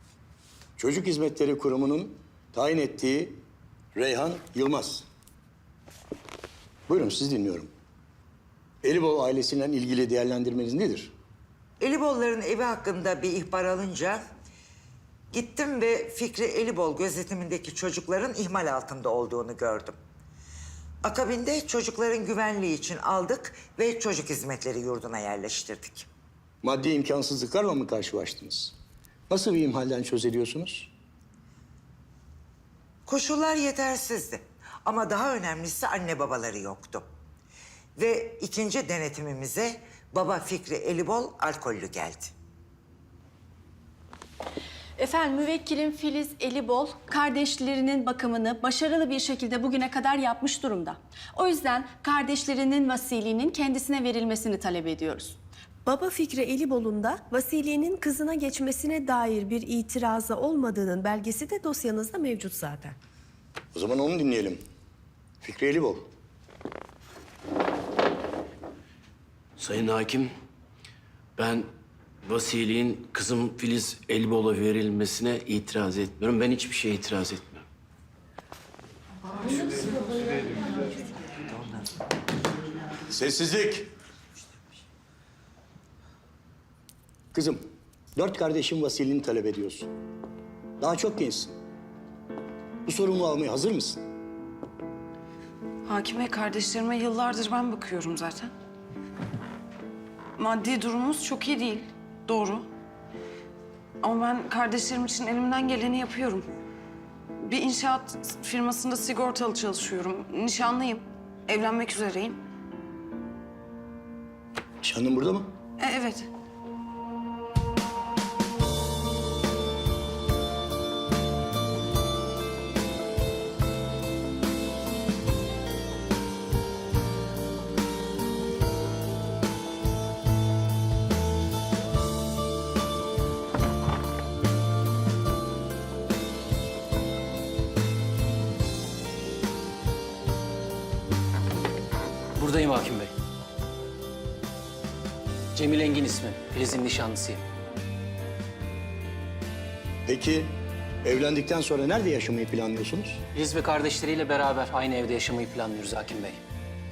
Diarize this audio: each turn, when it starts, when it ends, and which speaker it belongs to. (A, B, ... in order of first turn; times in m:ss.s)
0:00.8-0:03.4 A
0:04.0-0:05.0 A
0:06.9-0:07.7 A
0:08.8-0:11.1 A
0:11.8-0:14.2 B
0:15.3-0:20.0 B
0:21.0-0:26.1 B
0:26.6-0:28.7 A
0:29.3-0:30.9 A
0:33.1-0:37.1 B
0:38.0-0:42.3 B
0:45.0-0:55.4 C
0:55.8-1:03.0 D
1:03.7-1:04.6 A
1:05.4-1:06.1 A
1:09.6-1:10.3 E
1:11.4-1:11.7 E
1:12.2-1:17.6 E
1:23.1-1:23.9 A
1:27.3-1:27.6 A
1:28.1-1:29.9 A
1:30.8-1:31.5 A
1:32.8-1:34.0 A
1:35.8-1:38.5 F
1:40.4-1:42.7 F
1:44.0-1:46.5 F
1:47.4-1:52.4 F
1:54.8-1:55.5 A
1:55.8-1:56.3 F
2:22.4-2:23.1 G
2:25.5-2:27.4 G
2:30.0-2:30.5 A
2:31.0-2:33.2 A
2:33.3-2:36.4 G